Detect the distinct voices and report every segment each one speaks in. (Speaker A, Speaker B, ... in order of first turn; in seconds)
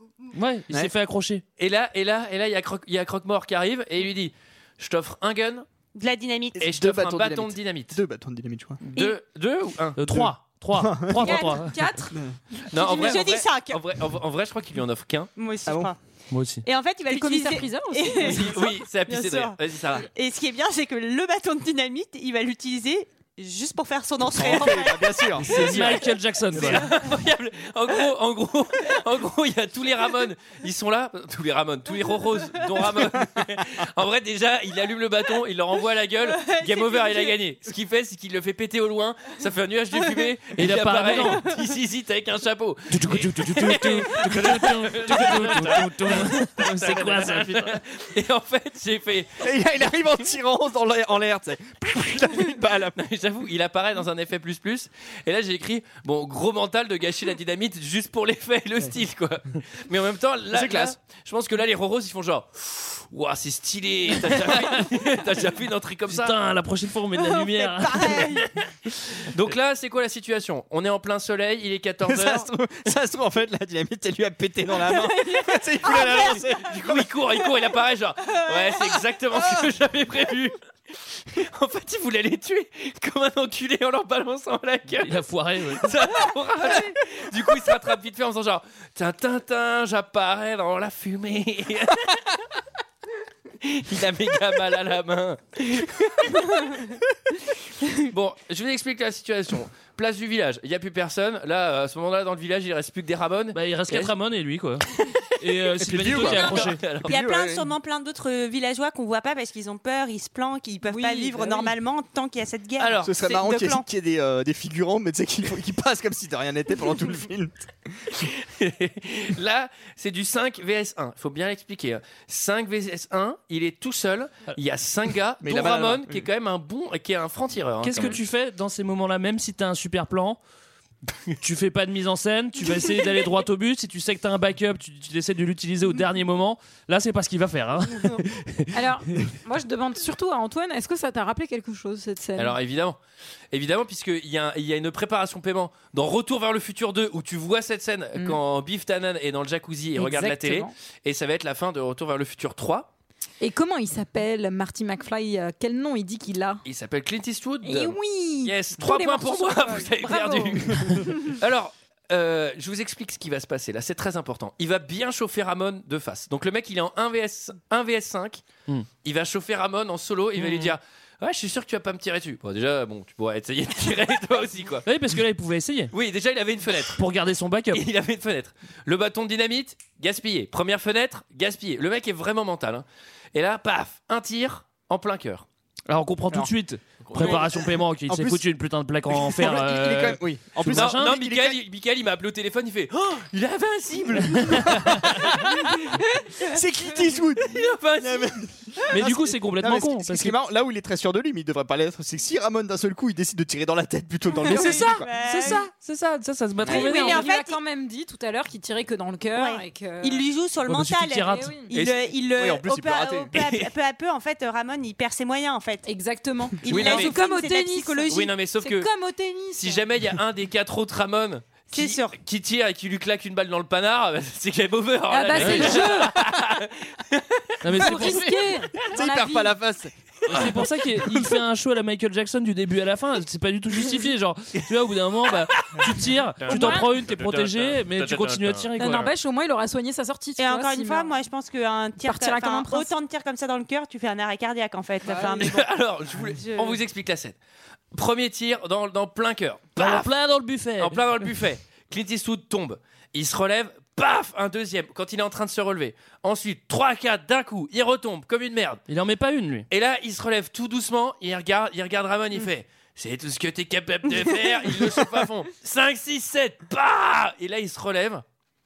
Speaker A: 0.3-1.4, 10.0-11.8, 16.3-16.6, 25.4-26.9, 40.6-41.5, 42.9-47.8, 66.1-68.4, 85.0-85.9, 103.5-106.8, 127.8-130.4, 131.4-139.3, 170.4-170.8, 174.9-175.9, 177.0-177.8, 185.9-191.2, 198.9-200.4, 204.5-207.3, 210.7-211.5, 225.3-225.8, 227.6-228.3, 230.3-239.1, 249.8-251.0, 258.9-259.7
Speaker B: 1.6-5.7, 6.6-8.0, 8.9-10.3, 12.7-15.3, 18.2-20.1, 25.4-49.5, 52.9-66.4, 69.2-72.5, 76.2-80.6, 81.1-92.4, 93.6-96.8, 98.0-104.1, 106.0-107.2, 112.8-113.2, 118.2-128.2, 142.4-143.0, 143.5-152.9, 156.7-168.5, 169.0-174.9, 175.9-177.0, 177.7-185.5, 187.0-187.7, 190.7-196.0, 197.4-198.4, 211.7-212.0, 213.3-213.7, 216.7-217.2, 218.1-218.9, 219.6-227.7, 230.3-230.6, 235.3-239.0, 245.1-247.4, 247.9-250.1, 250.8-258.8, 259.7-268.2
Speaker C: 6.0-6.6, 12.8-13.8, 15.4-16.0, 16.6-25.6, 36.2-37.4, 67.2-68.5, 74.8-76.4, 78.3-79.0, 106.3-113.8, 204.4-205.7, 206.7-207.6, 209.3-215.9, 216.6-218.2, 221.7-222.2, 240.4-245.7, 246.4-246.8
Speaker D: 6.6-8.8, 10.2-11.2, 24.3-25.9, 49.4-53.0, 60.5-61.0, 72.1-76.8, 105.8-107.7, 113.0-118.2, 125.4-126.2, 188.1-188.4, 189.1-191.6, 194.5-195.5, 196.4-205.1, 212.4-213.3, 227.8-228.2, 228.8-230.6
Speaker E: 11.2-13.2, 17.1-18.5, 110.9-111.7, 138.7-142.6, 150.0-150.7, 153.4-156.6, 157.6-161.3, 206.7-210.2, 211.3-211.7, 215.9-219.8, 225.1-226.2, 227.8-229.6, 236.5-236.9, 238.8-241.1, 242.0-242.9